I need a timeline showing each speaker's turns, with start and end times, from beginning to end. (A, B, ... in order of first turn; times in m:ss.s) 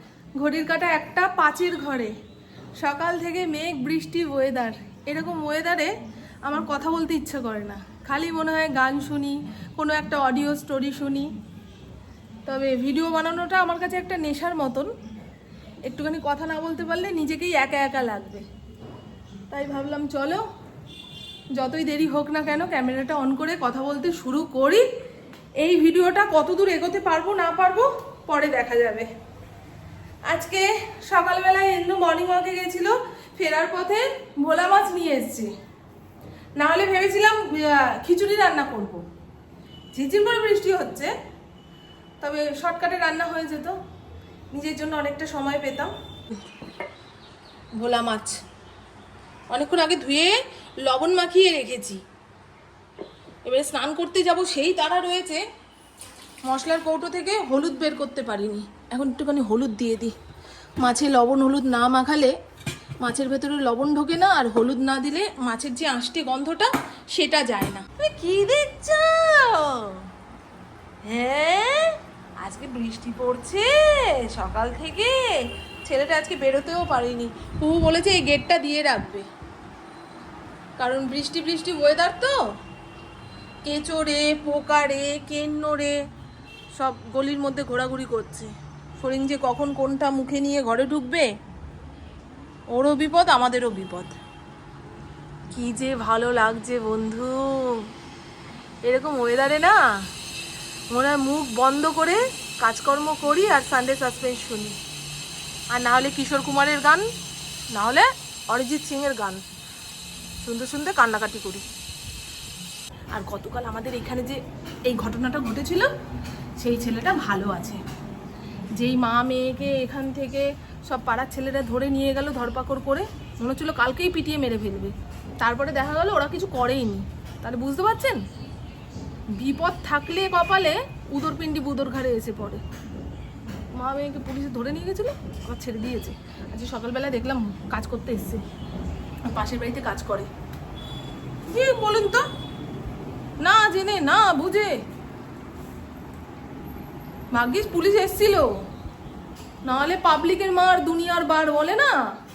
0:00.4-0:02.1 A
0:02.8-0:05.9 A
0:06.4-0:11.3 A
0:12.4-0:14.9 A
0:15.9-0:18.4 A
0:19.5-0:20.4 A
0:21.6-0:24.8 A
0:25.6-0:29.1 A
0:30.2-0:35.5 A
0:36.6-0:39.1 A
0:39.9-0:41.1 A
0:42.2-0:43.8 A
0:44.5-0:46.4 A
0:47.8-0:48.4 A
0:49.5-0:52.0 A
0:53.4-0:55.4 A
0:56.4-1:00.2 A
1:00.8-1:02.3 A
1:03.0-1:10.1 A
1:11.0-1:19.3 A
1:20.8-1:22.4 A
1:23.6-1:26.0 A
1:26.8-1:31.3 A
1:32.7-1:34.2 A
1:35.5-1:37.9 A
1:38.8-1:40.0 A
1:40.9-1:44.8 A
1:45.7-1:47.1 A
1:47.7-1:49.4 A
1:50.4-1:51.7 A
1:53.1-1:55.9 A
1:56.6-1:57.8 A
1:58.8-2:08.2 A
2:09.4-2:12.6 A
2:13.7-2:18.4 A
2:19.3-2:20.3 A
2:21.5-2:22.2 A
2:23.4-2:24.8 A
2:27.3-2:28.5 A
2:29.6-2:32.0 A